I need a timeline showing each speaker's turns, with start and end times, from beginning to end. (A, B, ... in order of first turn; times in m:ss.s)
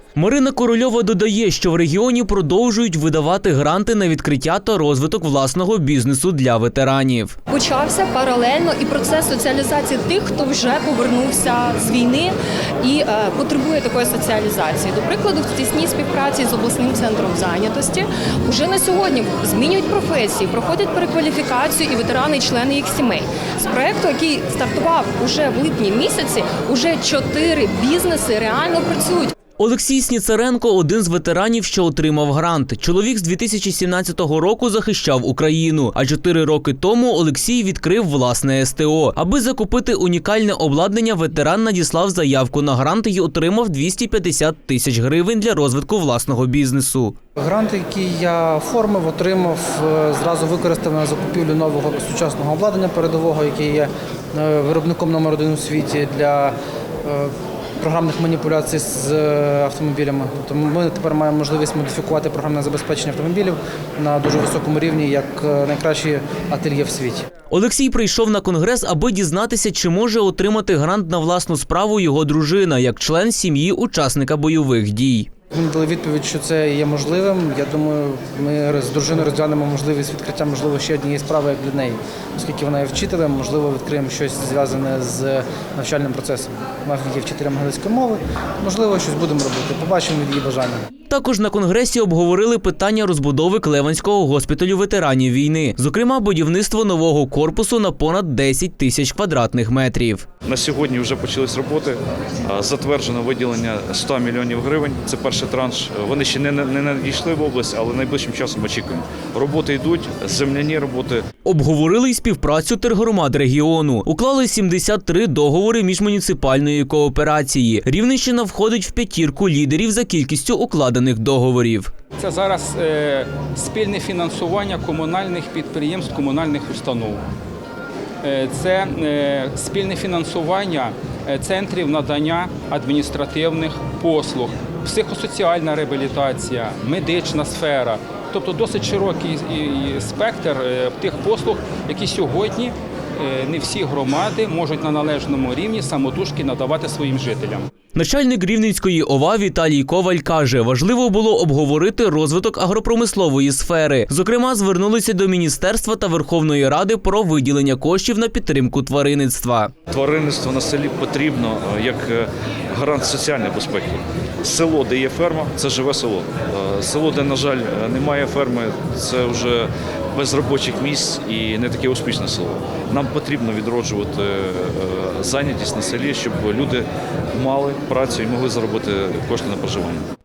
0:00.2-0:07.4 A
0:07.5-0:29.3 B
0:29.6-0:47.1 A
0:47.4-1:07.2 C
1:07.5-1:15.3 A
1:15.5-1:30.8 C
1:31.1-1:40.2 A
1:40.4-1:51.2 D
1:51.4-2:01.9 A
2:02.2-2:07.2 E
2:08.2-2:27.7 E
2:27.9-2:39.7 A
2:39.9-3:00.0 D